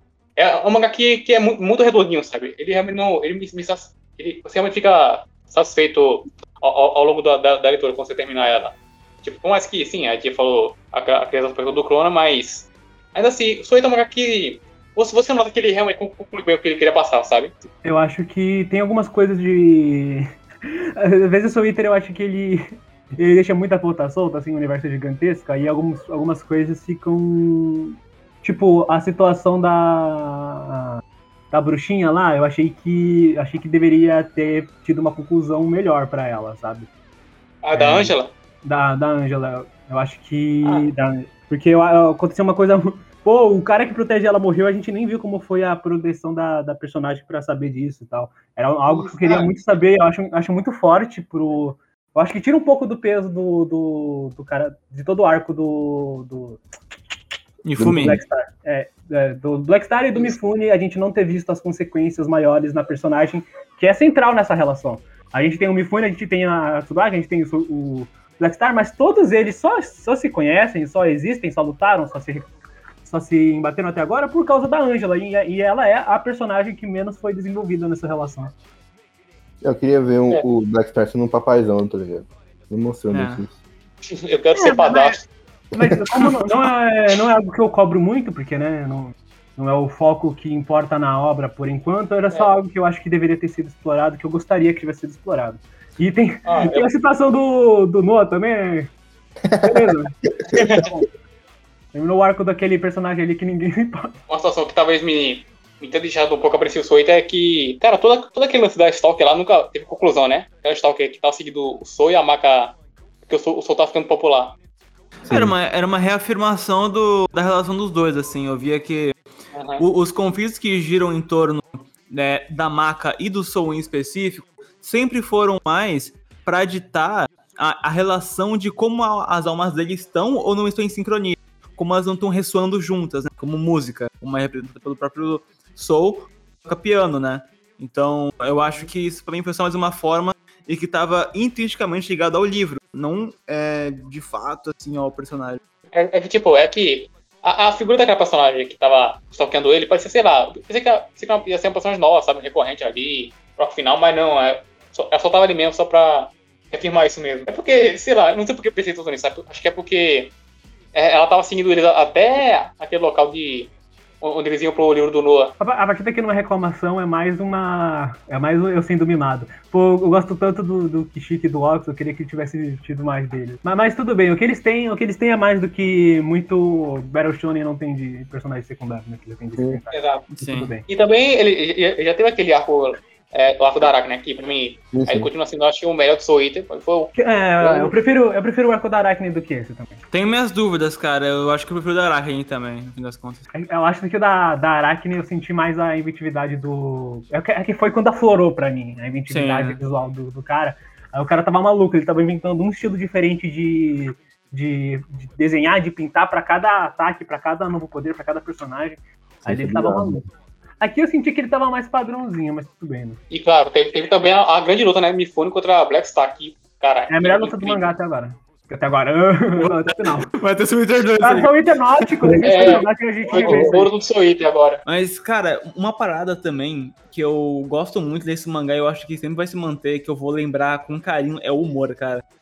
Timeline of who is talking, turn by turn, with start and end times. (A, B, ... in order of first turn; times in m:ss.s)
0:00.4-0:17.5 A
0:17.8-0:36.9 B
0:37.6-0:38.3 A
0:37.7-0:57.2 B
0:48.9-0:49.5 A
0:57.6-0:58.2 C
0:57.8-1:12.5 B
1:13.0-1:18.5 B
1:19.6-1:23.6 D
1:23.1-1:23.4 C
1:24.1-1:25.3 A
1:24.7-1:25.1 B
1:25.8-1:38.9 B
1:36.5-1:36.9 A
1:39.5-1:39.9 D
1:39.6-1:40.1 B
1:40.5-1:40.8 D
1:40.5-1:40.9 A
1:40.7-1:41.1 B
1:41.9-1:44.2 B
1:44.3-1:54.6 A
1:55.2-1:59.2 C
1:55.3-1:55.5 D
1:59.5-1:59.8 A
1:59.8-2:25.6 C
2:25.9-2:40.3 A
2:40.9-2:45.5 A
2:45.6-3:00.9 B
2:59.9-3:00.2 A
3:00.4-3:00.7 C
3:00.9-3:08.0 A
3:04.9-3:05.3 D
3:07.2-3:10.0 B
3:10.1-3:13.4 C
3:13.5-3:30.2 B
3:19.3-3:19.8 C
3:29.4-3:30.2 D
3:30.8-3:33.2 B
3:33.3-3:37.9 A
3:37.1-3:40.3 B
3:39.6-3:41.6 C
3:41.2-3:43.9 B
3:42.4-3:44.8 A
3:44.9-3:52.2 C